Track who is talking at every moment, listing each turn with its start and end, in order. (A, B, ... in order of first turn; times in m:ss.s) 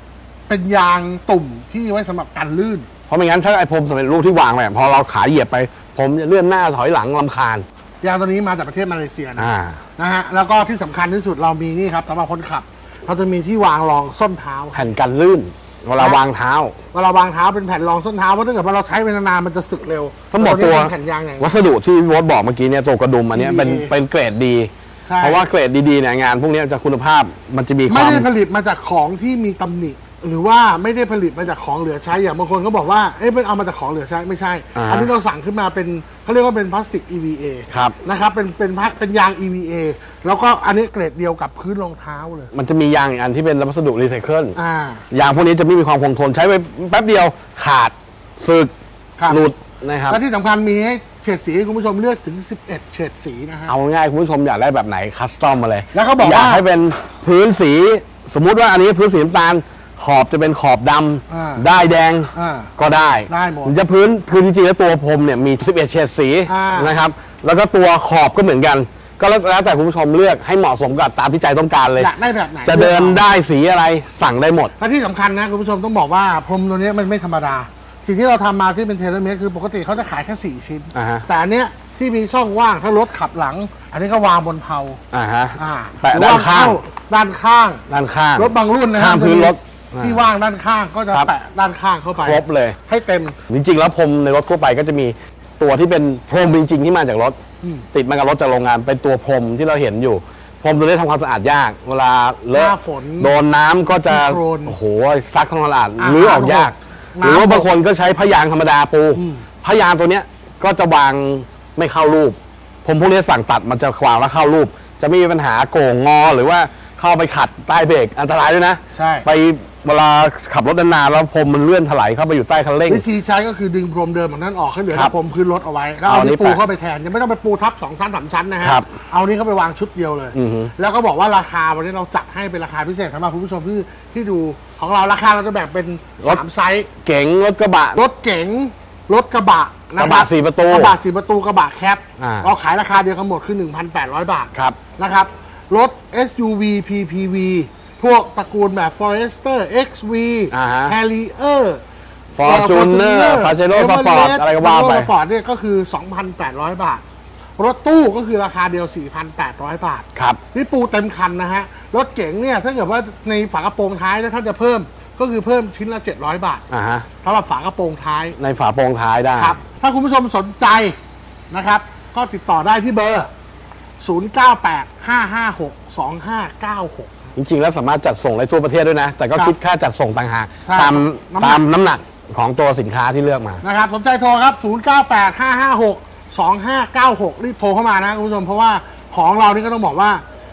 0:00.5-0:02.9 A
0:03.1-0:07.7 B
0:08.0-0:14.8 A
0:09.4-0:09.8 B
0:14.7-0:16.8 B
0:16.0-0:16.2 A
0:16.9-0:21.6 A
0:20.3-0:28.3 B
0:23.4-0:23.9 A
0:25.1-0:25.4 A
0:27.9-0:42.5 A
0:34.8-0:35.1 B
0:37.7-0:38.0 B
0:42.5-0:44.6 B
0:44.6-0:45.0 A
0:45.1-0:48.7 B
0:49.2-0:49.5 A
0:49.3-0:50.2 B
0:50.1-0:53.7 A
0:53.7-1:12.1 B
0:55.9-0:56.6 A
1:01.3-1:01.7 A
1:02.3-1:02.8 A
1:03.3-1:03.8 A
1:06.5-1:07.0 A
1:12.0-1:13.2 A
1:12.6-1:14.7 B
1:14.8-1:25.0 A
1:21.0-1:21.3 B
1:25.1-1:26.8 B
1:25.6-1:27.8 A
1:27.9-1:30.2 B
1:28.4-1:33.4 A
1:32.2-1:32.8 B
1:33.5-1:37.4 B
1:37.9-2:03.0 B
1:42.5-1:43.4 A
1:44.1-1:44.8 A
1:46.0-1:47.7 A
1:49.2-1:49.5 A
1:58.9-1:59.3 A
2:02.9-2:16.9 A
2:06.0-2:06.6 B
2:10.3-2:10.7 B
2:17.0-2:18.0 B
2:18.0-2:31.8 A
2:20.0-2:21.0 B
2:22.2-2:22.5 B
2:30.5-2:31.0 B
2:32.4-2:35.1 B
2:32.4-2:37.0 A
2:37.6-2:46.6 A
2:40.2-2:40.4 B
2:46.7-2:47.1 B
2:47.2-2:48.4 A
2:48.4-2:49.6 B
2:49.4-2:51.0 A
2:51.5-2:53.3 A
2:54.0-2:57.3 A
2:57.4-3:03.6 B
3:00.6-3:01.6 A
3:03.6-3:10.2 A